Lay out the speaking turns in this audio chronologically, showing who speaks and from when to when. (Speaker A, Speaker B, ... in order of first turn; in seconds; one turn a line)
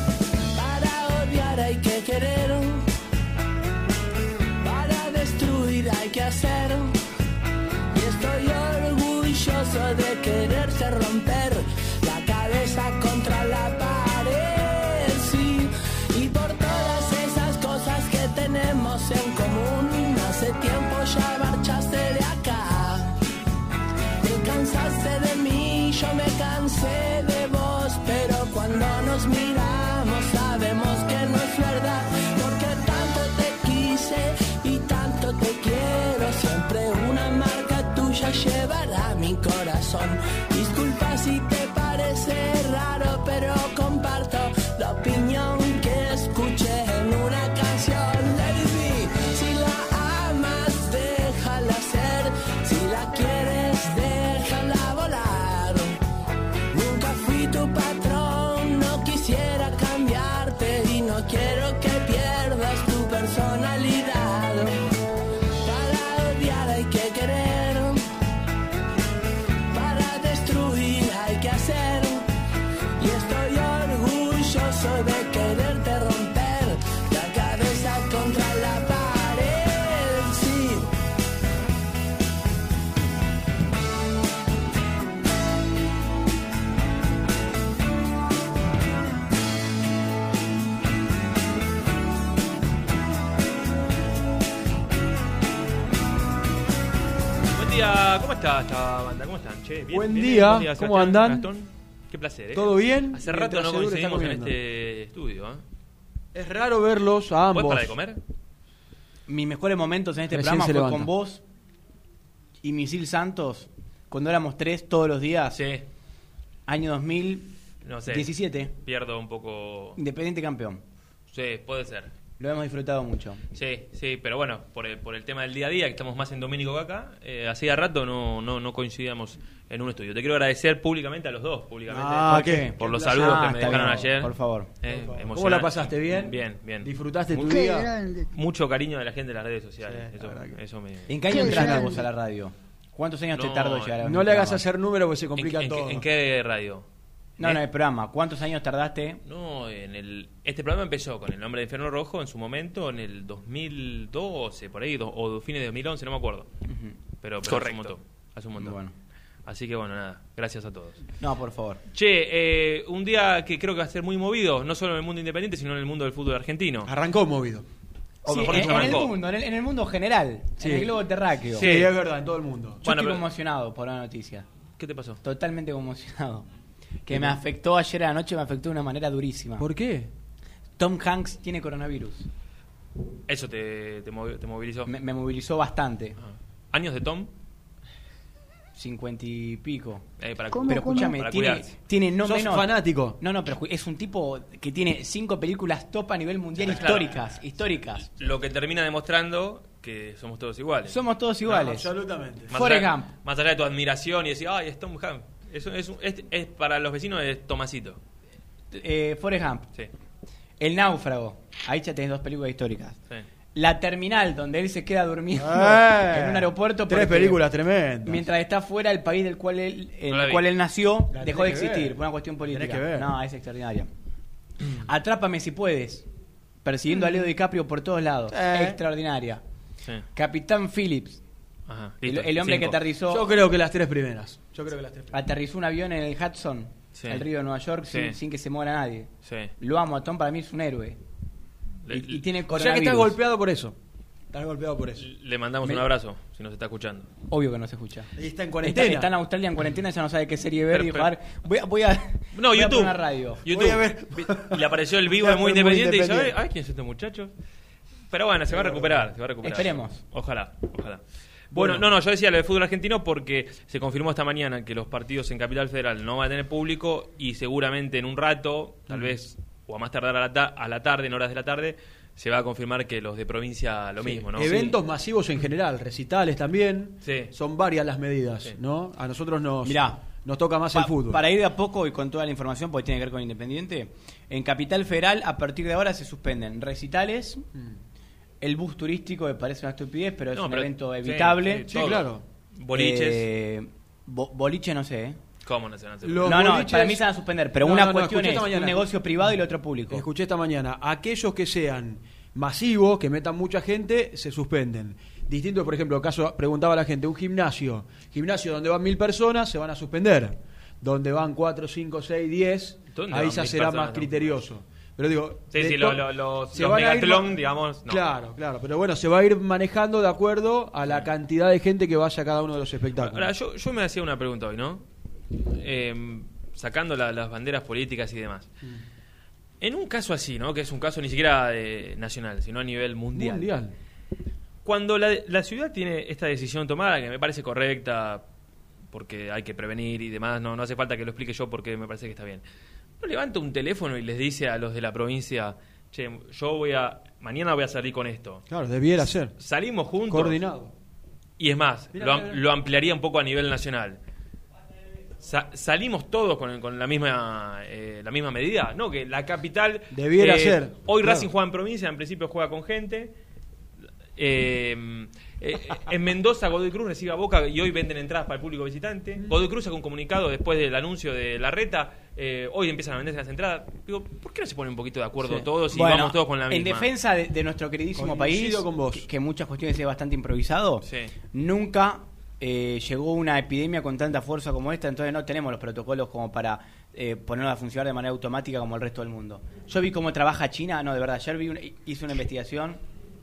Speaker A: 0.5-2.9
Speaker A: 4.6-6.9
Speaker A: 7.9-23.2
Speaker A: 24.2-56.0
Speaker A: 56.7-64.8
Speaker A: 65.6-68.0
Speaker A: 69.7-72.3
Speaker A: 73.0-80.9
Speaker B: 97.5-105.6
Speaker C: 99.9-101.5
Speaker C: 102.5-104.5
Speaker C: 106.3-107.9
Speaker B: 107.5-108.2
Speaker D: 109.3-111.4
Speaker C: 110.3-111.1
Speaker D: 112.6-115.6
Speaker B: 115.5-115.8
Speaker D: 116.7-117.5
Speaker B: 117.8-120.0
Speaker D: 118.1-118.7
Speaker D: 120.0-120.8
Speaker B: 121.3-122.1
Speaker D: 122.4-123.4
Speaker B: 123.5-137.5
Speaker C: 131.9-132.7
Speaker D: 132.3-134.7
Speaker C: 134.9-137.9
Speaker E: 137.5-138.2
Speaker B: 138.3-141.1
Speaker C: 139.8-140.6
Speaker D: 141.1-144.7
Speaker E: 141.3-141.9
Speaker C: 141.6-141.8
Speaker B: 143.3-144.0
Speaker C: 144.0-146.0
Speaker B: 145.4-146.8
Speaker D: 147.4-149.2
Speaker B: 149.2-156.5
Speaker D: 156.7-157.9
Speaker B: 157.2-158.8
Speaker D: 158.6-158.9
Speaker B: 159.5-161.0
Speaker D: 161.2-161.8
Speaker B: 161.9-166.9
Speaker C: 166.8-167.7
Speaker D: 168.3-171.7
Speaker B: 168.3-169.2
Speaker C: 168.3-169.1
Speaker C: 170.6-170.9
Speaker C: 171.6-172.8
Speaker B: 171.6-171.9
Speaker B: 172.8-173.2
Speaker D: 172.8-174.5
Speaker B: 174.8-175.2
Speaker D: 175.2-176.5
Speaker D: 177.1-179.7
Speaker C: 179.6-180.1
Speaker D: 180.8-182.3
Speaker B: 183.3-184.9
Speaker D: 184.9-186.2
Speaker B: 186.2-187.3
Speaker D: 188.8-190.1
Speaker B: 190.2-191.7
Speaker E: 190.6-191.2
Speaker D: 190.6-198.1
Speaker C: 192.2-193.2
Speaker B: 196.6-197.4
Speaker B: 198.2-201.0
Speaker D: 200.9-201.9
Speaker C: 201.5-202.5
Speaker B: 202.5-208.0
Speaker D: 202.5-203.1
Speaker D: 208.7-209.7
Speaker D: 210.6-213.0
Speaker D: 213.6-217.4
Speaker C: 215.4-218.3
Speaker D: 218.1-223.9
Speaker B: 220.1-220.5
Speaker C: 221.1-223.1
Speaker D: 224.8-226.1
Speaker D: 226.6-229.4
Speaker C: 228.3-228.8
Speaker D: 230.2-231.2
Speaker B: 231.7-232.8
Speaker D: 232.1-233.3
Speaker C: 233.1-235.2
Speaker D: 235.1-241.0
Speaker B: 236.9-237.2
Speaker B: 237.9-238.2
Speaker B: 239.2-239.5
Speaker B: 241.9-242.2
Speaker D: 241.9-243.2
Speaker C: 242.5-243.8
Speaker C: 244.3-245.0
Speaker B: 245.0-247.1
Speaker D: 247.3-248.1
Speaker C: 248.2-249.1
Speaker D: 248.6-253.4
Speaker B: 250.7-251.1
Speaker B: 252.3-257.3
Speaker C: 253.5-256.3
Speaker B: 258.1-261.0
Speaker C: 258.5-259.1
Speaker D: 259.4-260.0
Speaker B: 261.5-274.7
Speaker C: 261.5-261.9
Speaker C: 268.9-269.1
Speaker C: 274.2-281.2
Speaker B: 277.0-277.3
Speaker D: 279.6-280.0
Speaker D: 280.7-287.4
Speaker D: 288.4-291.7
Speaker B: 290.3-293.3
Speaker C: 291.7-292.2
Speaker D: 292.7-295.2
Speaker B: 295.4-296.4
Speaker C: 296.0-297.0
Speaker D: 296.2-300.1
Speaker C: 297.6-298.9
Speaker C: 299.9-317.4
Speaker B: 312.9-314.4
Speaker B: 315.5-318.1
Speaker C: 317.9-323.3
Speaker B: 323.0-324.8
Speaker B: 325.5-328.5
Speaker B: 329.6-333.5
Speaker C: 333.1-333.7
Speaker B: 334.6-338.2
Speaker B: 338.9-342.4
Speaker B: 343.0-348.4
Speaker C: 348.5-349.3
Speaker B: 349.4-350.4
Speaker C: 350.1-350.7
Speaker B: 351.4-354.0
Speaker C: 351.9-352.4
Speaker B: 355.2-363.1
Speaker C: 359.9-361.3
Speaker B: 364.2-376.9
Speaker D: 375.2-392.8
Speaker C: 377.9-379.1
Speaker B: 380.8-381.1